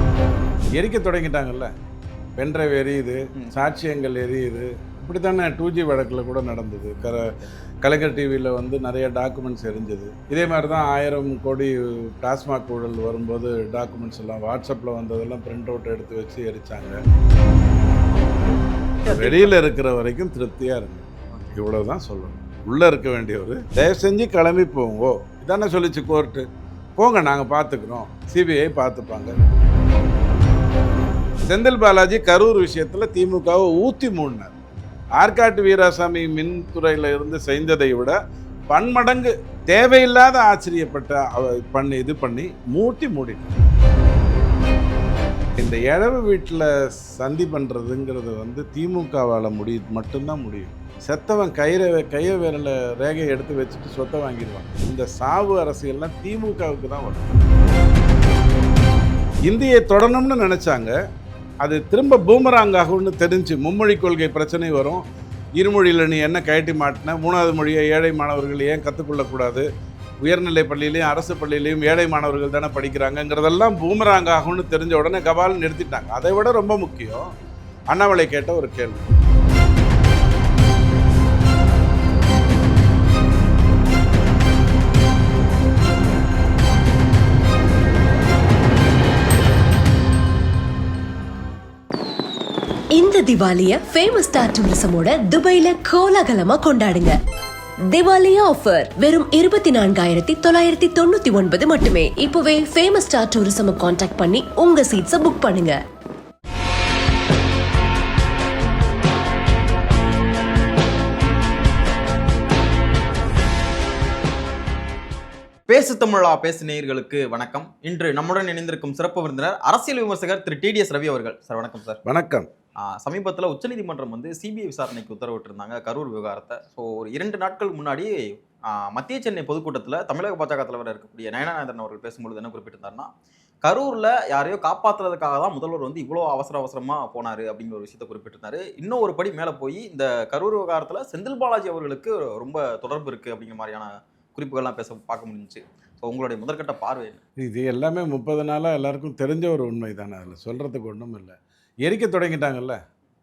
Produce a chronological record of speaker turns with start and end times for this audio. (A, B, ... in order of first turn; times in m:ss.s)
0:00.7-0:01.7 A
0:02.4-0:17.0 A
0:19.0-0:19.6 B
0:19.1-0:29.4 A
0:21.3-0:21.6 B
0:31.4-0:34.6 A
0:35.2-0:38.2 A
0:38.7-0:43.6 A
0:45.6-0:57.4 A
0:59.4-1:00.9 A
1:01.6-1:05.0 A
1:05.6-1:09.7 A
1:10.2-1:17.3 A
1:17.9-1:19.1 A
1:33.0-1:37.2 C
1:37.9-1:45.8 C
1:55.7-2:02.0 B
2:02.0-2:02.5 A
2:02.8-2:08.1 B
2:08.7-2:13.1 B
2:13.6-2:27.2 B
2:27.4-2:32.8 A